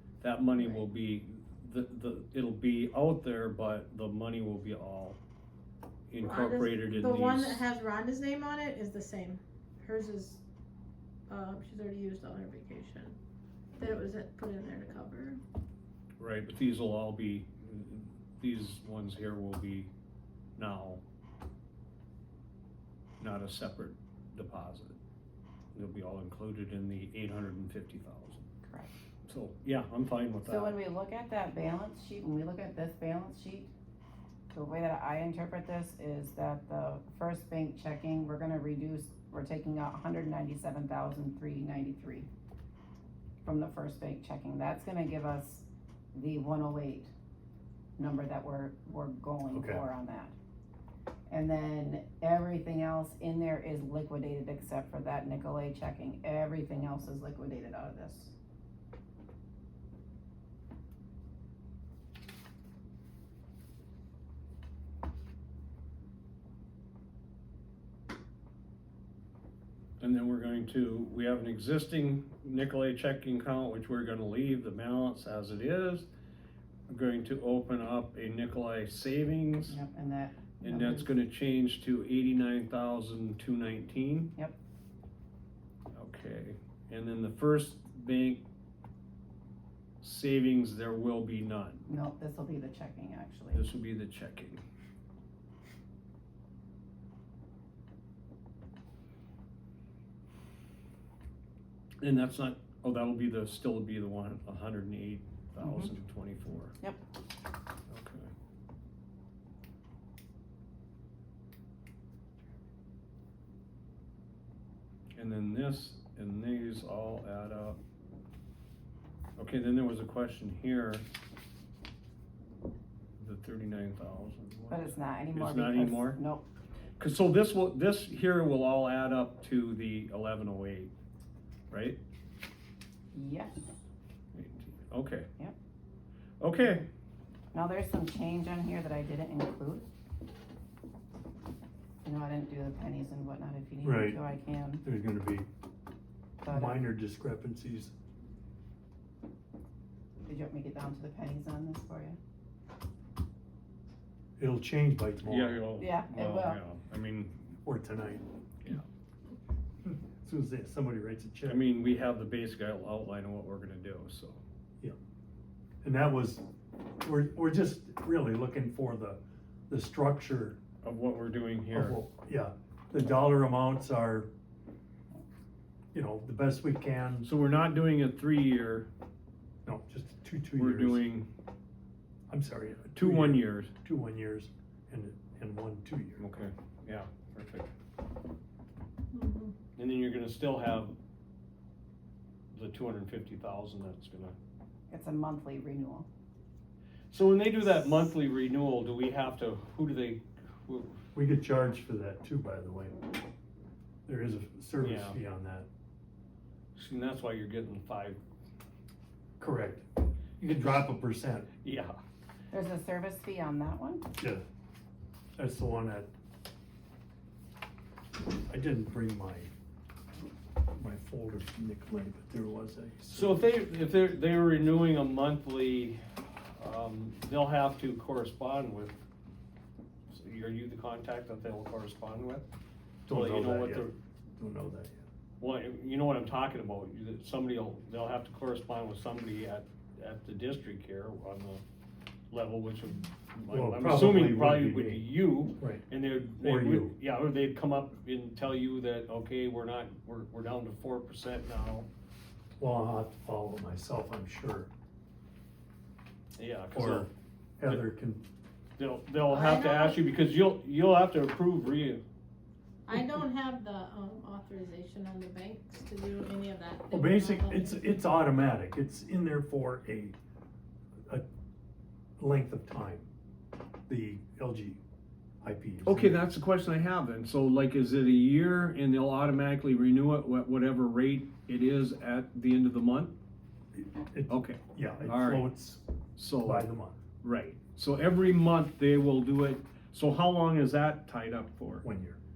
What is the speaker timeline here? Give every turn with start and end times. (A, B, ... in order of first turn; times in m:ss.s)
0:00.2-0:05.2 A
0:00.6-0:00.9 B
0:06.1-0:07.6 A
0:06.2-0:10.4 C
0:11.3-0:13.2 C
0:13.8-0:15.4 C
0:16.2-0:19.9 A
0:20.6-0:21.0 A
0:23.2-0:25.0 A
0:25.7-0:28.5 A
0:28.6-0:28.9 B
0:29.3-0:30.8 A
0:30.4-0:33.7 B
0:34.5-0:42.3 B
0:43.4-0:47.1 B
0:48.0-0:50.3 B
0:49.5-0:49.8 D
0:51.3-0:58.4 B
1:10.0-1:16.1 A
1:16.9-1:19.8 A
1:19.7-1:21.2 B
1:20.6-1:24.3 A
1:25.9-1:28.4 A
1:30.0-1:31.8 A
1:31.9-1:33.7 B
1:33.5-1:34.6 A
1:42.0-1:46.7 A
1:45.6-1:45.9 B
1:47.9-1:48.3 A
1:55.2-1:57.8 A
1:59.4-2:01.0 A
2:03.2-2:06.2 A
2:04.7-2:06.5 B
2:07.0-2:10.9 A
2:11.7-2:12.0 A
2:13.1-2:13.8 B
2:14.3-2:15.3 A
2:16.4-2:16.9 A
2:17.5-2:19.9 B
2:22.0-2:24.8 B
2:23.8-2:24.2 D
2:24.8-2:25.5 D
2:26.4-2:26.8 B
2:26.5-2:27.9 D
2:30.2-2:32.2 B
2:34.4-2:35.7 D
2:35.3-2:37.4 A
2:35.8-2:36.6 B
2:37.6-2:38.2 D
2:39.8-2:41.6 D
2:41.5-2:44.4 A
2:45.8-2:46.5 D
2:47.0-2:50.6 D
2:50.8-2:52.0 A
2:51.7-2:54.3 D
2:55.9-2:57.3 D
2:57.2-2:58.9 A
2:59.6-3:01.0 D
3:00.6-3:01.3 A
3:02.3-3:06.2 D
3:02.9-3:03.7 A
3:06.2-3:07.7 A
3:09.1-3:09.6 C
3:09.8-3:10.9 A
3:12.5-3:14.4 A
3:14.9-3:16.1 B
3:17.1-3:21.0 A
3:21.2-3:23.0 D
3:24.1-3:25.7 D
3:24.8-3:25.2 A
3:26.8-3:28.2 A
3:29.4-3:29.9 D
3:30.4-3:31.5 D
3:31.6-3:32.0 A
3:32.5-3:34.1 B
3:34.2-3:34.4 D
3:35.4-3:36.1 D
3:38.5-3:39.5 D
3:40.7-3:43.4 D
3:43.1-3:49.0 A
3:50.1-3:52.5 A
3:53.1-3:55.0 D
3:53.1-3:53.9 A
3:55.4-4:01.6 A
4:02.3-4:11.9 A
4:03.5-4:05.8 D
4:06.4-4:06.9 D
4:12.6-4:14.7 D
4:16.4-4:17.1 A
4:16.8-4:18.2 D
4:18.8-4:22.0 A
4:19.3-4:20.0 C
4:22.9-4:28.0 C
4:26.9-4:30.2 D
4:32.2-4:33.1 D
4:33.9-4:34.8 D
4:35.4-4:36.2 D
4:35.8-4:43.1 A
4:43.8-4:45.8 D
4:44.3-4:45.6 A
4:46.2-4:46.7 A
4:46.4-4:47.0 D
4:47.2-4:51.9 A
4:51.8-4:52.2 D